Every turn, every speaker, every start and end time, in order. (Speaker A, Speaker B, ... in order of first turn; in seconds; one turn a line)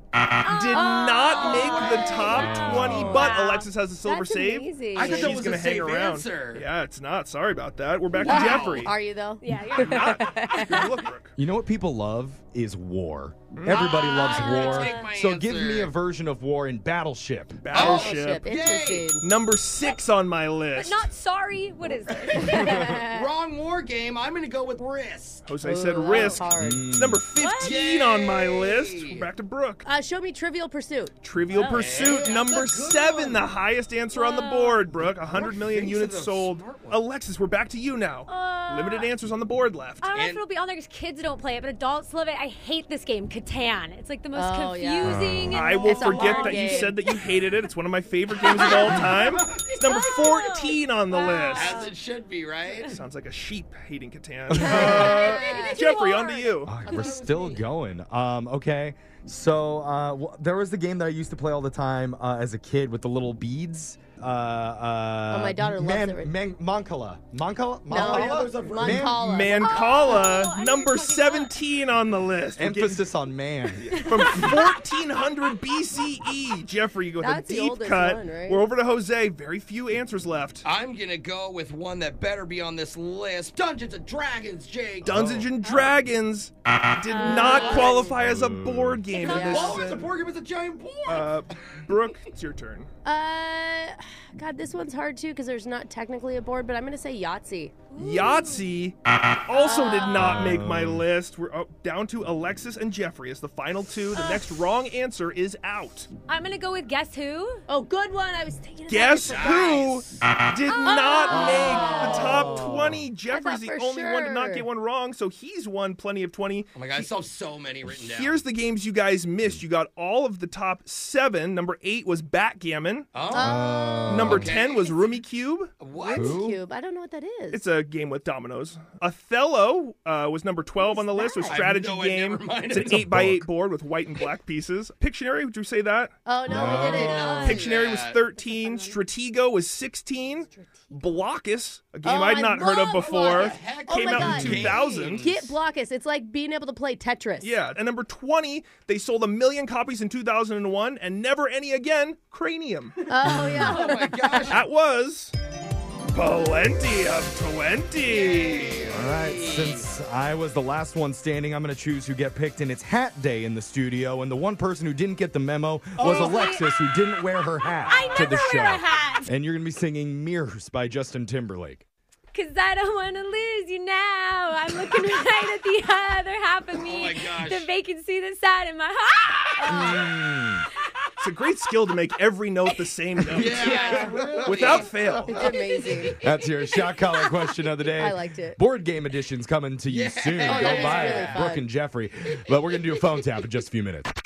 Speaker A: 0.4-8.9
Speaker B: 0.5-3.7
Speaker C: 0.7-2.2
Speaker D: 1.4-2.6
Speaker E: 2.3-3.4
Speaker C: 4.0-5.4
Speaker D: 4.9-6.7
Speaker D: 8.2-8.9
Speaker B: 8.2-8.6
Speaker C: 8.2-10.9
Speaker B: 9.4-10.9
Speaker A: 9.8-11.3
Speaker E: 11.4-17.8
Speaker A: 13.6-14.0
Speaker B: 13.7-15.1
Speaker D: 13.9-16.0
Speaker A: 17.6-18.4
Speaker C: 17.7-19.3
Speaker D: 17.8-19.1
Speaker A: 19.1-21.1
Speaker B: 20.8-22.9
Speaker C: 22.3-23.3
Speaker E: 22.5-23.0
Speaker D: 23.0-25.5
Speaker A: 25.5-29.9
Speaker C: 25.6-26.8
Speaker E: 26.5-27.2
Speaker B: 27.4-27.8
Speaker D: 27.6-29.3
Speaker C: 29.9-31.1
Speaker A: 31.2-40.1
Speaker B: 31.5-32.3
Speaker D: 31.7-33.5
Speaker B: 34.1-34.9
Speaker D: 35.3-37.0
Speaker B: 38.3-39.1
Speaker B: 40.0-47.3
Speaker D: 40.1-40.4
Speaker C: 44.3-47.0
Speaker E: 45.0-45.6
Speaker A: 45.5-51.8
Speaker B: 48.4-49.2
Speaker D: 49.0-49.8
Speaker B: 49.8-52.0
Speaker D: 51.5-52.9
Speaker A: 52.8-56.8
Speaker E: 54.5-55.1
Speaker B: 54.5-56.7
Speaker C: 54.6-55.8
Speaker D: 55.3-55.6
Speaker E: 56.7-69.2
Speaker D: 56.8-57.8
Speaker C: 65.3-66.3
Speaker C: 67.9-70.5
Speaker D: 67.9-69.2
Speaker A: 69.2-73.0
Speaker B: 69.5-71.6
Speaker E: 72.6-74.2
Speaker A: 73.8-80.7
Speaker B: 73.9-74.8
Speaker C: 77.2-78.7
Speaker D: 80.6-85.2
Speaker A: 85.0-90.1
Speaker E: 85.0-85.5
Speaker B: 87.1-88.0
Speaker C: 87.2-88.2
Speaker D: 87.3-87.8
Speaker E: 88.0-89.1
Speaker C: 89.2-89.9
Speaker D: 89.3-91.3
Speaker A: 91.0-92.9
Speaker C: 93.0-97.7
Speaker B: 97.9-98.7
Speaker A: 98.0-106.1
Speaker C: 99.6-100.2
Speaker E: 100.2-101.0
Speaker B: 104.1-104.6
Speaker B: 106.3-107.6
Speaker C: 107.7-110.0
Speaker A: 108.9-116.8
Speaker D: 109.3-109.9
Speaker B: 110.7-112.3
Speaker C: 110.9-114.7
Speaker E: 111.3-113.1
Speaker D: 116.8-118.4
Speaker A: 117.8-123.1
Speaker D: 123.1-123.5
Speaker C: 123.3-124.4
Speaker E: 123.3-124.5
Speaker A: 124.1-125.8
Speaker D: 124.3-125.0
Speaker D: 125.8-126.4
Speaker C: 126.0-127.7
Speaker E: 126.1-126.6
Speaker A: 127.5-136.1
Speaker C: 130.8-131.6
Speaker D: 131.5-132.8
Speaker E: 132.8-133.5
Speaker C: 136.3-137.6
Speaker E: 136.5-137.1
Speaker B: 136.6-137.7
Speaker D: 136.8-138.2
Speaker A: 137.0-145.3
Speaker B: 138.3-139.0
Speaker C: 142.0-147.5
Speaker D: 142.9-145.5
Speaker E: 144.2-144.7
Speaker A: 147.4-153.0
Speaker C: 153.1-154.6
Speaker E: 153.3-153.7
Speaker D: 153.3-154.6
Speaker B: 153.6-154.1
Speaker A: 154.5-155.3
Speaker A: 156.1-158.9
Speaker B: 158.2-158.9
Speaker D: 158.3-159.9
Speaker E: 158.9-171.9
Speaker B: 166.0-166.7
Speaker B: 167.9-169.3
Speaker B: 172.3-180.1
Speaker D: 176.7-177.7
Speaker E: 179.7-180.7
Speaker A: 181.2-185.5
Speaker D: 183.2-185.0
Speaker C: 183.6-184.8
Speaker B: 183.6-184.3
Speaker C: 185.3-186.2
Speaker B: 185.5-185.9
Speaker E: 186.2-194.1
Speaker B: 186.9-187.5
Speaker C: 187.9-188.6
Speaker D: 189.9-191.4
Speaker C: 190.4-191.7